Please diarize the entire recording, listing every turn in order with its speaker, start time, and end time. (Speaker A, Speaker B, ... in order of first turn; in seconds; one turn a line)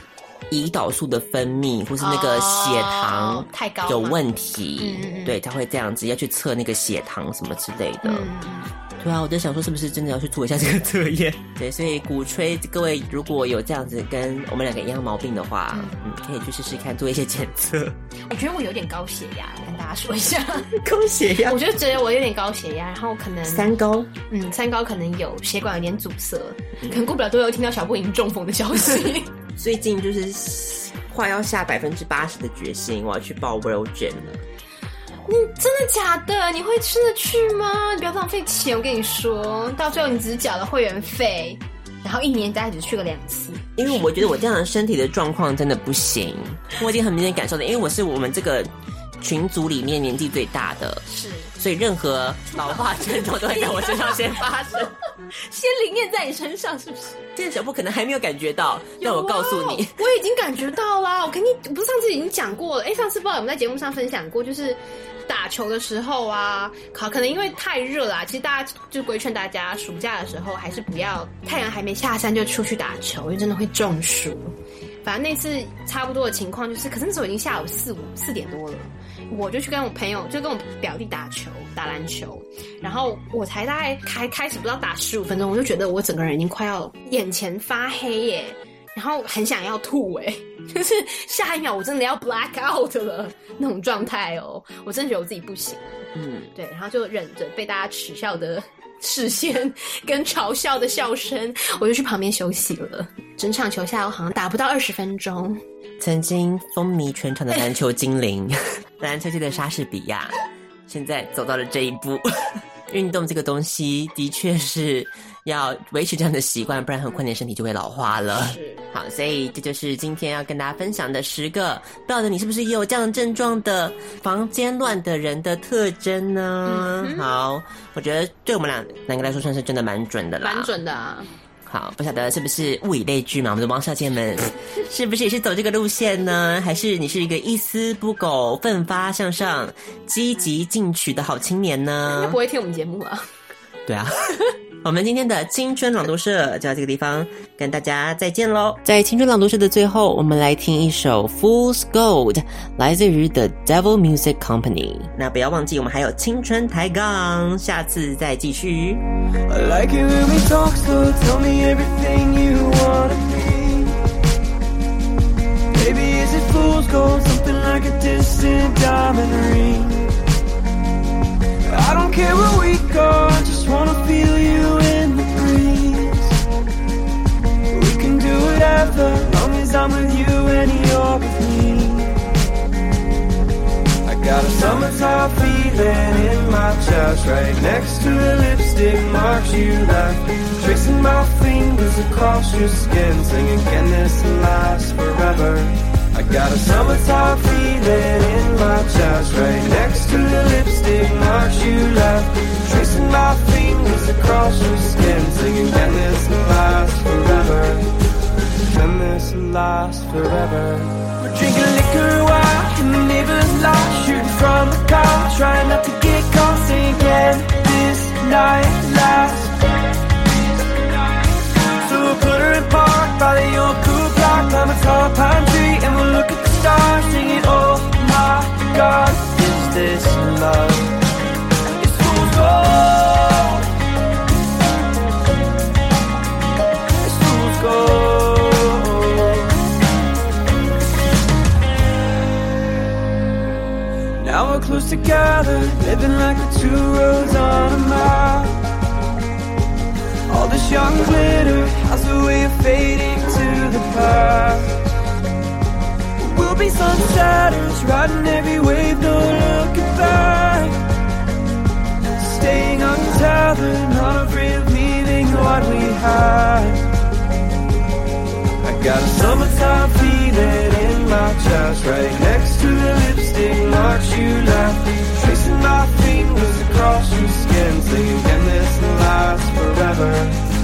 Speaker A: 0.5-8.3
Speaker B: 2.0-4.2
Speaker B: 4.8-5.4
Speaker B: 8.0-8.7
Speaker A: 9.0-18.0
Speaker B: 15.7-16.1
Speaker B: 18.3-20.7
Speaker A: 20.7-21.6
Speaker B: 21.4-23.7
Speaker A: 23.4-24.1
Speaker B: 24.3-29.3
Speaker A: 29.6-34.4
Speaker B: 35.3-44.4
Speaker A: 43.8-51.0
Speaker B: 51.1-51.5
Speaker A: 51.6-55.0
Speaker B: 52.6-54.4
Speaker B: 55.3-57.2
Speaker A: 57.4-60.1
Speaker B: 59.0-74.5
Speaker B: 75.0-105.6
Speaker A: 96.2-96.5
Speaker A: 106.0-130.7
Speaker B: 118.3-118.8
Speaker B: 126.7-127.3
Speaker B: 130.4-131.3
Speaker A: 131.7-142.4
Speaker B: 142.1-143.2
Speaker A: 143.9-144.3
Speaker A: 144.8-159.1
Speaker C: 159.5-163.9
Speaker C: 165.7-170.1
Speaker C: 171.7-176.4
Speaker C: 177.7-182.2
Speaker C: 184.1-207.9
Speaker C: 208.7-219.6
Speaker C: 220.4-230.9
Speaker C: 231.7-233.7
Speaker C: 237.0-239.6
Speaker C: 244.2-248.6
Speaker C: 250.3-254.7
Speaker C: 256.2-260.8
Speaker C: 262.2-266.9
Speaker C: 268.6-280.4